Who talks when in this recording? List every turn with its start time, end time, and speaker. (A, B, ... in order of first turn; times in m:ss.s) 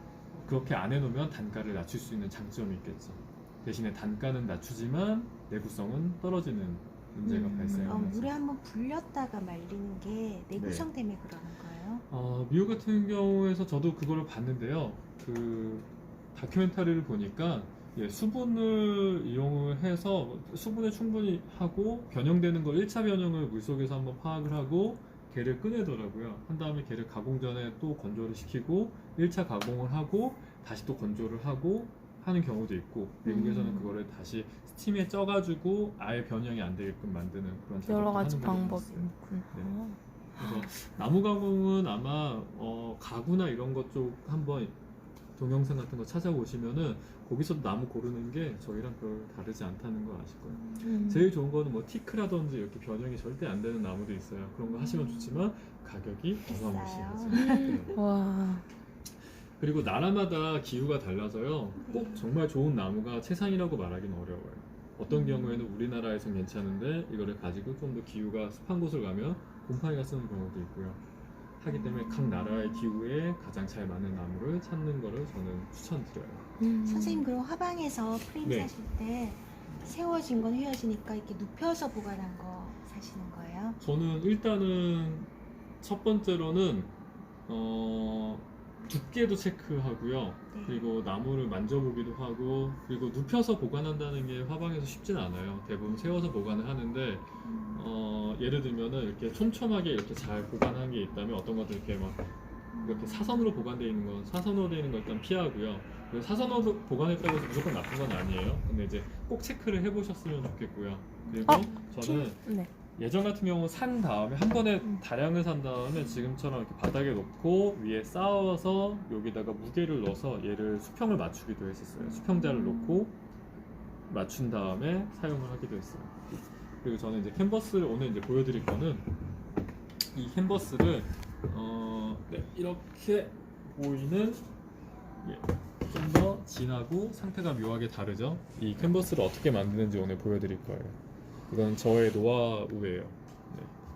0:00.3-0:08.3 A
0:07.2-0:08.0 B
0:07.8-0:12.0 C
0:10.6-0:10.9 A
0:12.1-0:39.7 A
0:33.2-0:33.9 B
0:37.8-0:40.6 B
0:40.4-0:44.7 A
0:45.4-0:58.0 A
0:50.8-0:51.3 B
0:54.7-0:55.4 C
0:56.5-0:58.0 C
0:57.3-0:58.6 B
0:59.6-1:11.0 A
1:01.8-1:02.3 C
1:05.1-1:05.6 C
1:11.6-1:16.5 A
1:16.6-1:17.3 B
1:16.8-1:23.8 C
1:18.4-1:18.7 A
1:23.8-1:26.9 A
1:27.5-1:42.2 A
1:30.5-1:30.9 C
1:37.4-1:37.8 C
1:42.7-1:43.4 C
1:42.8-1:52.4 A
1:51.3-1:51.9 C
1:51.5-1:52.7 B
1:52.9-2:03.1 A
2:04.1-2:09.1 A
2:10.1-2:14.4 A
2:15.2-2:21.0 A
2:21.5-2:23.7 A